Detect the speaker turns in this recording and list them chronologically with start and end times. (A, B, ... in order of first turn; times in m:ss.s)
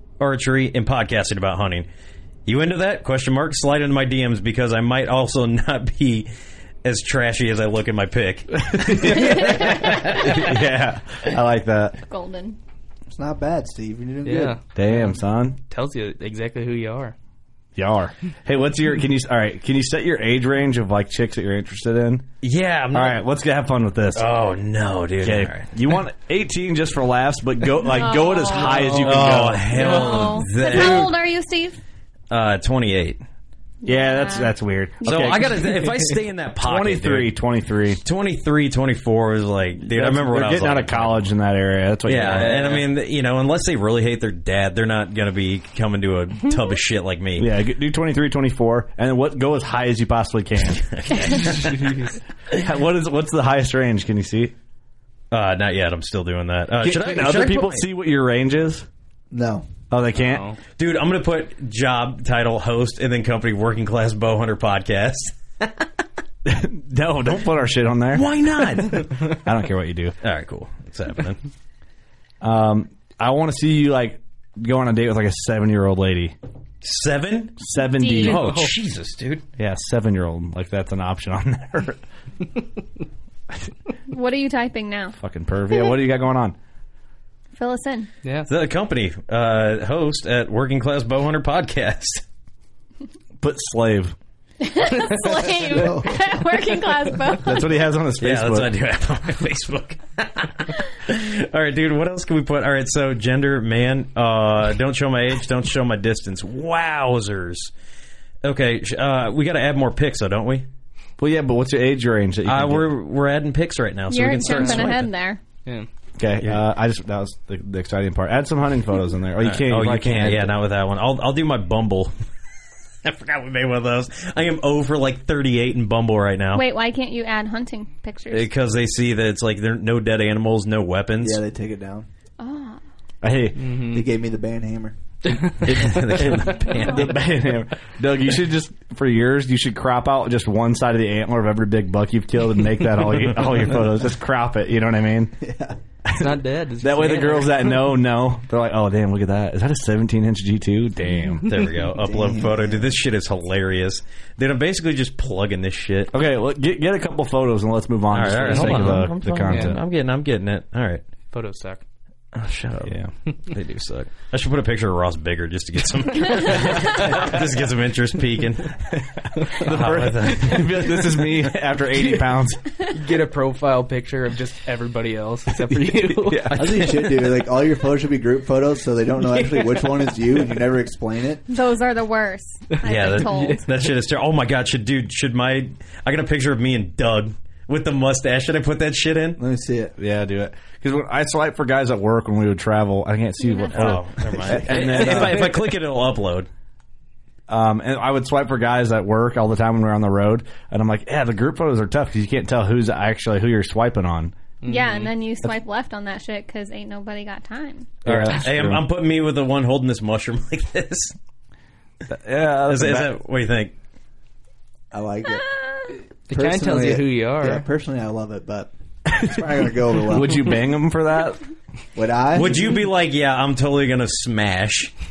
0:00.2-0:01.9 A
0:02.5-0:06.3 A
0:06.8-0:10.5 A
0:08.6-0:12.0 B
0:09.2-0:10.1 C
0:12.0-0:12.6 C
0:13.1-0:14.6 D
0:14.2-0:15.1 E
0:14.8-0:15.6 B
0:15.7-0:17.2 E
0:17.8-0:22.3 B
0:22.4-0:23.2 A
0:22.9-0:24.3 B
0:24.2-0:25.7 A
0:25.2-0:30.0 B
0:27.9-0:28.9 C
0:28.5-0:29.1 E
0:28.9-0:31.2 A
0:29.7-0:31.8 C
0:29.8-0:31.0 E
0:32.3-0:33.2 A
0:33.8-0:34.6 C
0:33.8-0:35.8 B
0:35.0-0:37.4 A
0:36.6-0:38.0 B
0:38.0-0:41.3 A
0:39.8-0:42.7 B
0:42.1-0:47.5 A
0:42.2-0:42.9 E
0:47.4-0:50.8 B
0:50.8-0:52.0 A
0:51.6-0:52.1 E
0:52.6-0:54.5 B
0:55.3-0:57.9 A
0:56.8-0:58.9 B
0:59.3-0:59.7 D
0:59.9-1:00.5 B
1:00.2-1:00.6 E
1:00.8-1:05.7 A
1:06.4-1:08.3 B
1:08.1-1:09.2 A
1:08.9-1:10.2 B
1:10.2-1:11.4 A
1:12.4-1:16.4 B
1:16.8-1:17.6 A
1:17.6-1:18.5 B
1:17.8-1:18.3 C
1:18.2-1:19.4 A
1:18.2-1:18.7 E
1:19.6-1:22.0 B
1:24.1-1:25.2 C
1:25.2-1:26.6 B
1:25.7-1:26.0 C
1:27.6-1:28.1 C
1:28.2-1:28.5 E
1:28.5-1:32.2 A
1:33.4-1:34.2 B
1:34.6-1:37.7 C
1:35.7-1:36.2 D
1:37.4-1:38.7 B
1:38.2-1:47.7 A
1:48.4-1:50.7 A
1:51.2-1:52.9 B
1:52.5-1:55.1 A
1:54.1-1:55.4 C
1:54.4-1:55.0 E
1:56.2-2:00.6 B
1:59.4-2:02.1 A
2:03.0-2:06.7 A
2:06.5-2:08.5 C
2:08.3-2:11.4 A
2:11.2-2:12.1 D
2:12.4-2:12.8 C
2:13.2-2:13.7 B
2:13.6-2:14.1 E
2:13.8-2:15.0 D
2:15.3-2:16.0 E
2:15.6-2:17.2 A
2:15.9-2:25.4 B
2:25.4-2:25.8 D
2:26.1-2:31.5 B
2:26.1-2:27.9 E
2:31.5-2:36.1 A
2:32.0-2:32.9 D
2:36.1-2:39.8 B
2:38.1-2:41.0 A
2:38.5-2:39.8 E
2:41.3-2:41.8 E
2:42.3-2:48.8 A
2:42.9-2:43.1 B
2:48.9-2:52.6 B
2:49.6-2:50.8 A
2:51.9-2:52.3 E
2:52.9-2:56.6 E
2:55.9-2:56.8 B
2:56.5-3:01.4 D
2:56.6-2:57.4 A
2:59.3-2:59.7 E
3:01.5-3:03.6 C
3:02.8-3:03.7 E
3:02.8-3:09.4 A
3:09.4-3:09.9 D
3:10.0-3:15.6 B
3:13.4-3:13.7 C
3:13.7-3:16.5 A
3:14.7-3:15.5 E
3:17.5-3:24.3 B
3:24.6-3:25.1 E
3:24.6-3:28.0 C
3:28.0-3:28.8 B
3:28.0-3:31.2 A
3:32.1-3:33.1 B
3:32.7-3:33.7 A
3:34.9-3:35.4 D
3:35.3-3:35.9 C
3:36.3-3:37.7 E
3:36.3-3:40.5 D
3:39.1-3:41.4 B
3:42.0-3:42.8 D
3:42.4-3:44.9 A